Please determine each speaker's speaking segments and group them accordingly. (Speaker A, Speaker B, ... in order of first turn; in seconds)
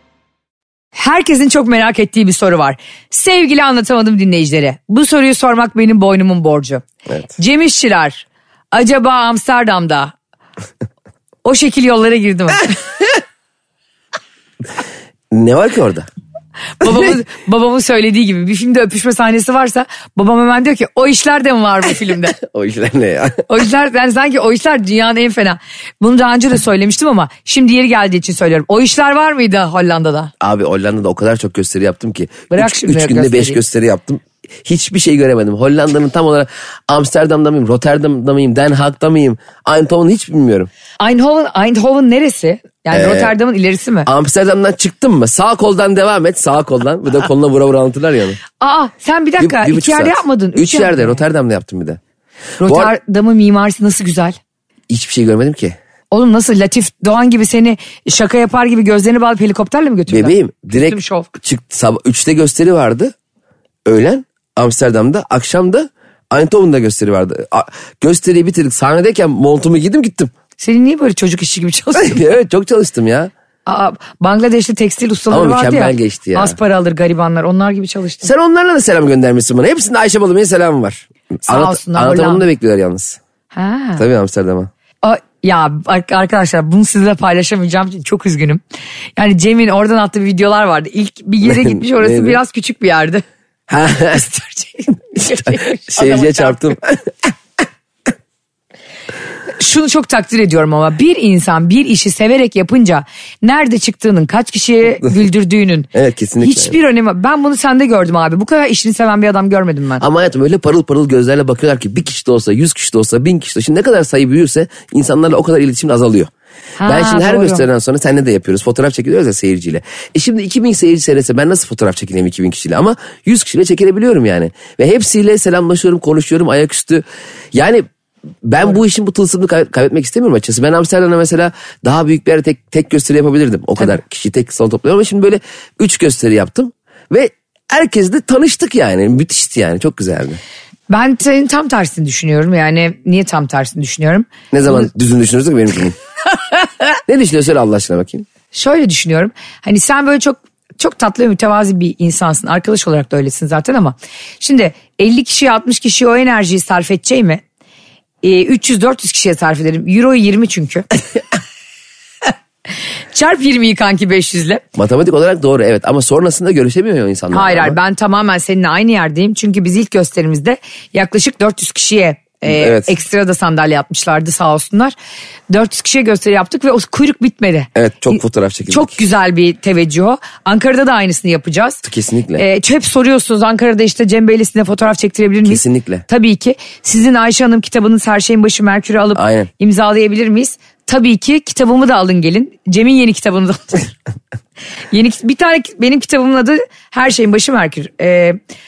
Speaker A: 0.9-6.8, 7.4-10.1, 11.4-12.8, 16.8-22.4, 23.5-30.3, 32.5-33.6, 41.0-44.1, 48.6-51.2, 52.6-54.4, 56.1-61.3, 70.6-72.3, 73.7-78.3, 81.5-82.5, 83.5-84.0, 85.0-88.6, 89.2-93.2, 94.1-96.6, 99.6-110.0, 116.8-117.7, 140.9-144.8, 148.5-157.4, 158.2-160.9, 163.1-164.6, 167.3-174.9, 175.5-181.8, 182.4-193.9, 194.9-198.4
Speaker B: 15.3-16.1, 22.4-23.5, 30.4-40.7, 42.9-43.4, 44.1-48.4, 49.4-52.0, 52.6-52.9, 54.9-55.8, 60.1-63.1, 63.9-70.3, 72.0-73.3, 75.3-76.6, 78.2-83.2, 84.0-84.7, 91.4-92.4, 93.7-94.3, 95.2-97.3, 105.9-106.8, 110.0-116.3, 116.8-127.9, 128.4-140.4, 144.5-146.0, 147.1-148.3, 164.8-167.8, 172.4-172.9, 177.8-179.0, 181.8-182.4, 185.4-186.0, 189.2-189.5